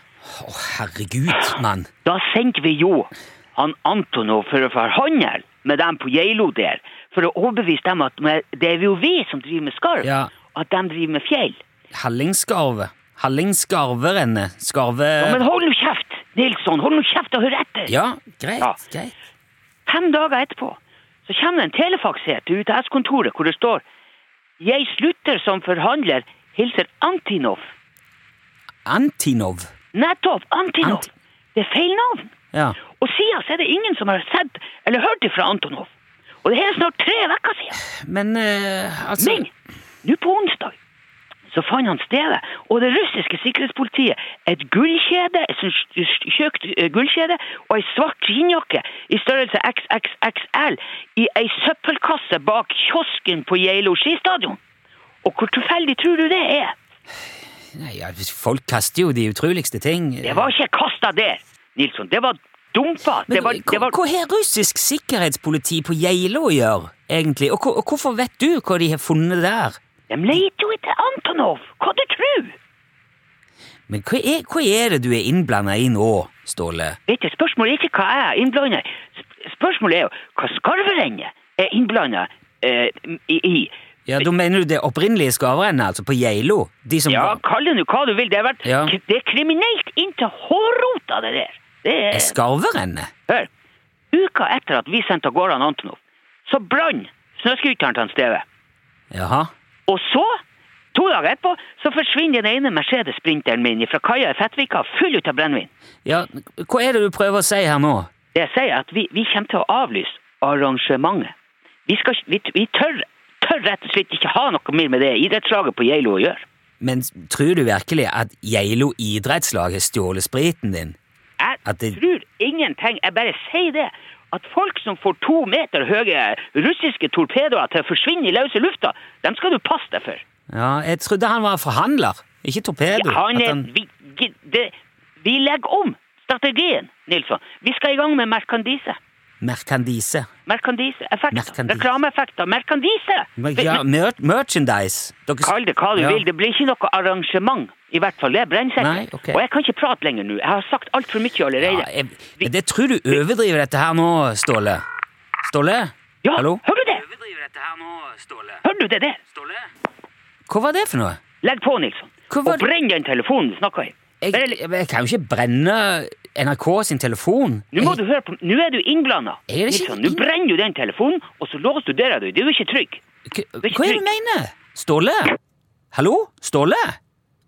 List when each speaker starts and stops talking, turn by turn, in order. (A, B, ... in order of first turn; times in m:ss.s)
0:00.2-0:01.9 A
0:02.0-0:11.6 B
0:10.0-0:10.3 A
0:11.9-0:15.4 A
0:15.2-0:17.9 B
0:17.9-0:19.1 A
0:19.8-0:23.8 B
0:24.6-0:27.7 B
0:28.8-0:29.7 A
0:29.9-0:32.3 B
0:32.9-0:35.9 B
0:36.4-0:37.8 B
0:37.8-0:39.5 A
0:39.2-0:39.5 B
0:40.0-0:40.8 B
0:41.5-0:54.6 B
0:55.2-0:56.7 B
0:57.7-1:00.5 A
1:00.2-1:04.0 B
1:03.3-1:09.8 A
1:10.1-1:12.6 B
1:13.9-1:17.0 A
1:17.1-1:24.2 B
1:24.0-1:27.4 A
1:27.1-1:32.4 B
1:28.6-1:28.9 A
1:32.1-1:33.1 A
1:34.1-1:38.4 B
1:39.1-1:39.5 A
1:39.9-1:40.4 B
1:40.9-1:45.7 B
1:46.0-1:48.1 A
1:48.3-1:51.3 B
1:51.8-1:56.4 B
1:56.8-2:01.0 A
2:01.4-2:10.2 B
2:01.6-2:02.0 A
2:10.5-2:13.7 A
2:12.9-2:19.0 B
2:19.4-2:20.3 A
2:20.4-2:23.8 B
2:21.3-2:21.9 A
2:23.4-2:26.2 A
2:25.4-2:31.9 B
2:28.8-2:29.4 A
2:31.6-2:34.8 A
2:35.4-2:38.6 A
2:36.2-2:37.0 B
2:38.6-2:39.2 B
2:40.5-2:41.2 A
2:41.4-2:44.6 B
2:42.3-2:42.6 A
2:44.2-2:48.0 A
2:47.7-2:53.0 B
2:49.5-2:50.2 A
2:53.3-2:55.4 A
2:53.6-2:54.1 B
2:55.9-2:57.0 A